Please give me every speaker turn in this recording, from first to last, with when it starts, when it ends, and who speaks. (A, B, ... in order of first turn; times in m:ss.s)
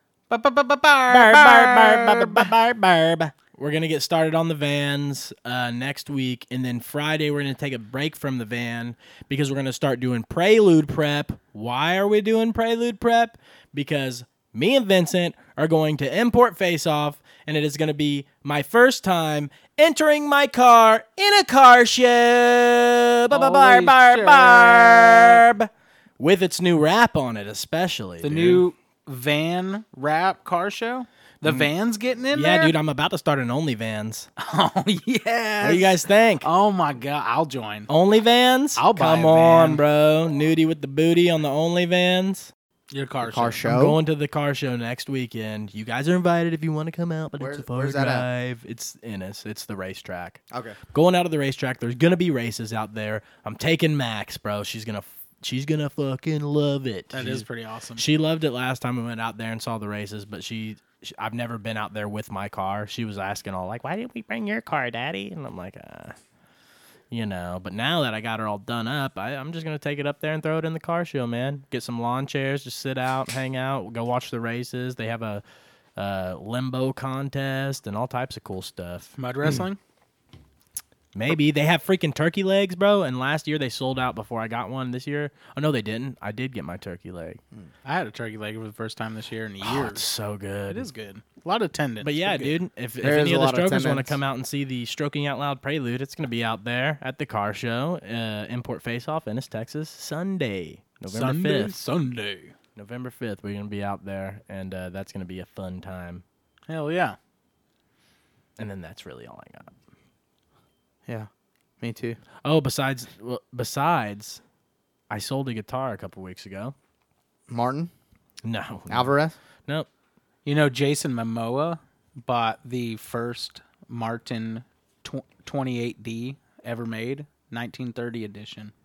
0:00.3-0:02.5 A
0:01.1-0:28.6 B
0:23.3-0:25.4 A
0:28.2-0:32.8 A
0:31.4-0:31.7 B
0:32.3-0:34.3 B
0:34.4-0:37.9 A
0:35.6-0:36.5 B
0:37.9-0:42.5 B
0:38.8-0:39.8 A
0:42.9-0:43.6 A
0:43.2-0:44.0 C
0:43.7-0:50.4 B
0:47.4-0:48.3 C
0:50.5-0:50.8 C
0:50.9-0:57.4 B
0:57.1-0:58.0 A
0:58.0-1:06.2 B
1:07.1-1:15.4 B
1:16.0-1:19.6 B
1:19.2-1:19.8 A
1:21.1-1:27.4 B
1:27.8-1:30.0 A
1:29.6-1:30.9 B
1:30.7-1:32.6 A
1:32.0-1:41.8 B
1:33.0-1:34.2 C
1:41.1-1:42.5 A
1:42.8-1:46.2 B
1:46.7-1:47.2 A
1:48.6-1:49.7 B
1:51.8-1:52.2 C
1:52.4-1:54.4 B
1:55.1-1:56.8 B
1:57.5-1:57.9 C
1:58.4-1:59.1 B
1:58.9-1:59.4 C
2:00.5-2:08.7 A